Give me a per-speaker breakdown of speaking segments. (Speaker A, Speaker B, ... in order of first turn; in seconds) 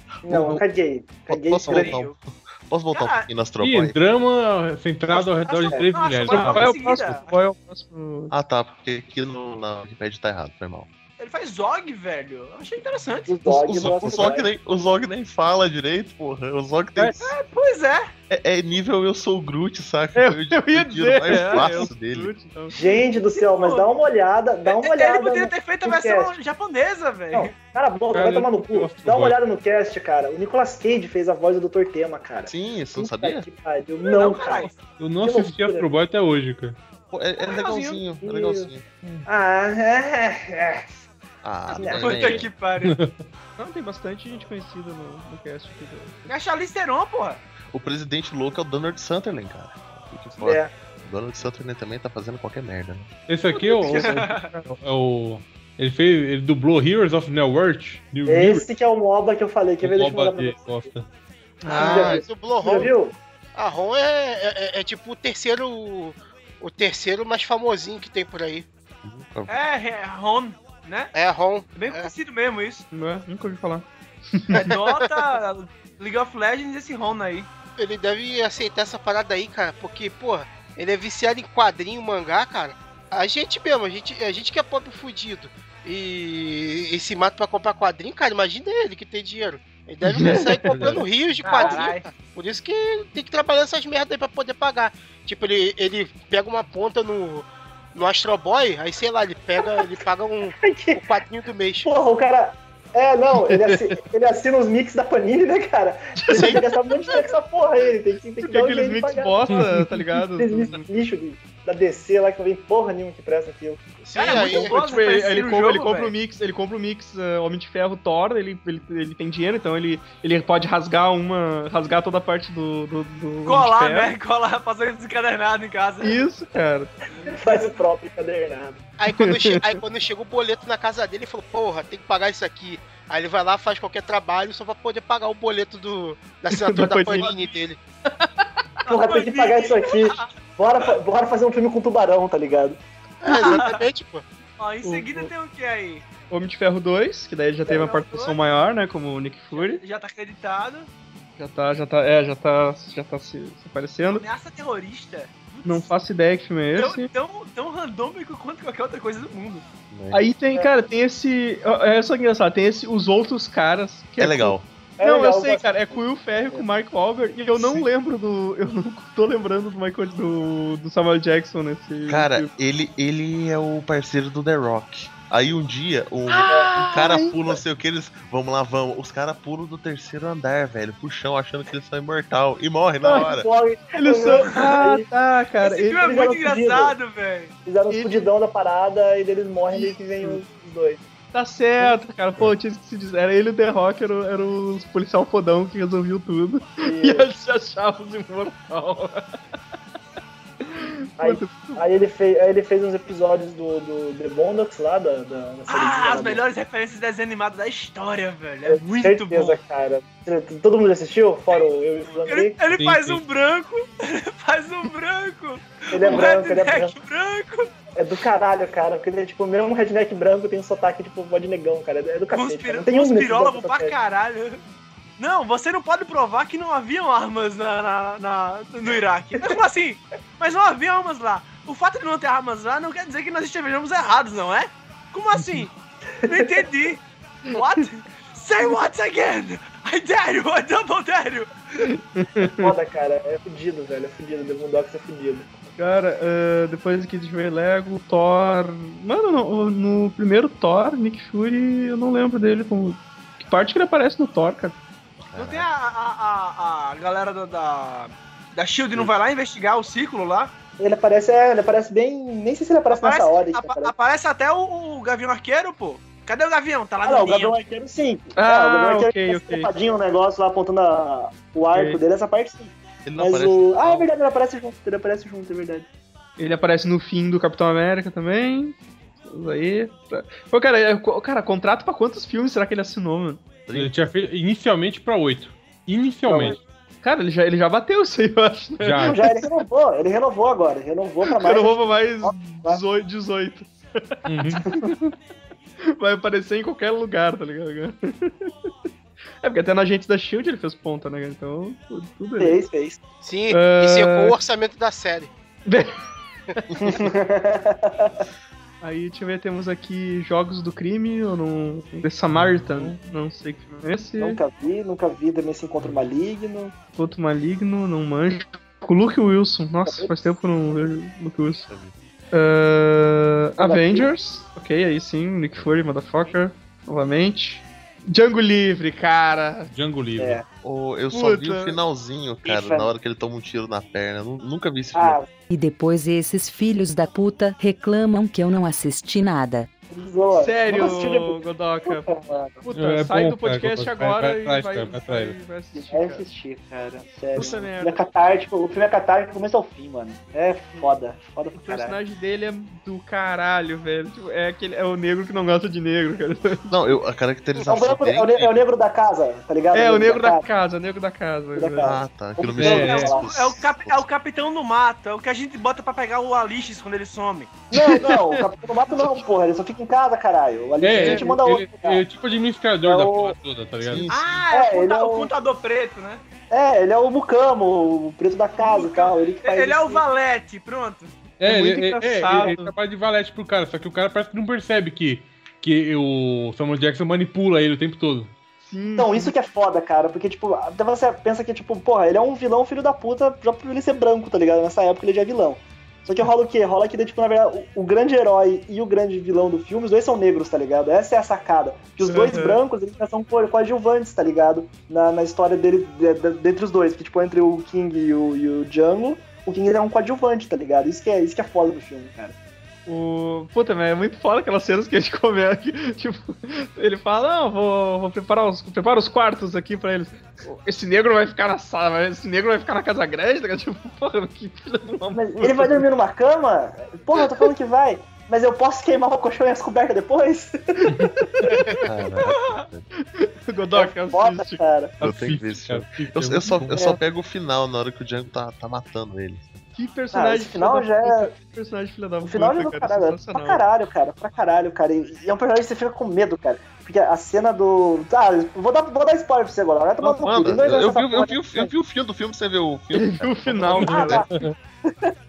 Speaker A: 0.2-2.0, 5.6-5.9, 13.2-14.5, 22.7-26.3, 27.3-35.9, 38.2-38.7, 39.2-40.9, 41.7-42.4, 50.4-50.7, 58.2-60.8, 61.7-63.1, 100.5-101.0, 101.8-114.0, 127.2-128.8, 138.8-142.8, 165.0-166.6, 183.1-185.1, 186.0-186.9, 187.6-191.0, 196.8-197.3, 201.2-206.4, 208.7-212.6, 215.9-216.9, 217.9-223.9, 236.2-236.7, 242.4-245.5, 260.8-263.9, 267.0-275.9, 286.2-286.6, 289.0-292.8, 302.4-303.0, 306.8-308.2, 314.2-316.8, 319.9-320.1, 323.6-324.1, 330.2-330.4, 332.4-332.9, 334.9-335.3, 339.9-342.7, 345.7-352.0, 357.7-360.4, 361.5-363.2, 367.7-372.0, 372.8-373.4, 374.5-375.3, 376.5-380.0, 389.0-412.3, 425.1-431.4, 433.7-435.0, 440.1-441.3, 442.2-451.7, 453.8-454.3
Speaker B: 0.3-0.6, 1.3-4.0, 8.3-10.9, 13.4-17.4, 18.3-22.3, 32.5-33.5, 37.1-38.9, 41.4-42.5, 47.7-53.1, 69.0-69.5, 159.9-160.2, 164.2-164.7, 167.5-167.9, 172.1-183.5, 255.2-255.7, 273.0-274.1, 283.7-283.9, 321.7-321.9, 325.5-325.9, 330.6-335.2, 356.7-358.6, 361.8-364.0, 373.8-374.4, 431.8-432.9, 435.0-439.6, 450.0-454.2
Speaker C: 1.7-2.1, 2.9-3.3, 5.1-7.3, 11.2-13.3, 17.2-18.1, 21.3-21.8, 23.3-23.9, 24.6-27.5, 34.0-34.8, 37.4-38.0, 41.9-43.0, 46.3-47.4, 53.6-54.5, 69.5-71.1, 71.7-72.8, 74.6-77.5, 91.4-92.0, 114.1-116.1, 123.5-126.2, 138.9-140.3, 143.3-143.8, 144.6-146.0, 147.7-148.4, 149.5-150.9, 154.1-155.9, 156.8-159.6, 185.6-187.5, 205.7-209.6, 212.2-217.7, 222.3-224.6, 225.2-235.7, 236.2-241.5, 255.3-260.5, 262.9-267.6, 363.2-367.5, 374.1-376.2, 378.6-381.1, 432.3-432.6
Speaker D: 3.6-6.7, 28.1-29.4, 35.0-36.8, 42.8-43.2, 53.3-58.6, 59.8-61.1, 90.7-91.0, 212.7-213.2, 283.7-286.6, 288.8-289.2, 294.2-294.6, 312.3-312.9, 329.7-330.4, 342.7-345.4, 362.5-363.2, 370.8-374.1, 381.4-388.3, 435.0-436.8, 453.9-454.5
Speaker E: 6.3-8.3, 20.1-22.8, 43.6-46.3, 53.9-54.6, 61.6-62.2, 72.9-74.6, 90.1-90.7, 103.5-103.8, 106.2-106.7, 108.4-110.8, 114.3-124.1, 126.0-126.9, 129.1-129.6, 136.5-137.3, 138.2-138.4, 144.8-145.3, 146.3-149.8, 151.4-154.2, 155.6-157.1, 160.1-172.5, 176.3-177.3, 183.9-186.0, 187.9-188.3, 189.7-190.4, 191.3-199.2, 200.6-201.8, 241.8-242.7, 245.8-254.8, 268.4-269.7, 271.7-272.0, 276.4-278.8, 279.3-283.4, 287.0-289.4, 291.2-295.1, 295.9-298.7, 299.4-302.6, 303.5-304.3, 305.6-306.0, 306.6-307.0, 308.8-314.4, 316.9-321.7, 322.3-329.7, 331.1-331.8, 340.3-342.1, 342.6-346.2, 347.3-348.0, 351.5-356.9, 359.7-361.9, 367.7-368.4, 370.9-371.3, 381.4-382.7, 388.6-389.3, 402.0-402.6, 412.9-425.8, 433.0-434.6, 439.8-443.6, 452.9-454.2
Speaker F: 61.7-62.9, 63.5-68.7, 71.1-72.1, 74.5-75.2, 77.8-101.9, 106.3-106.6, 114.0-114.8, 129.0-137.8, 143.2-144.2, 303.2-305.3
Speaker G: 335.5-339.7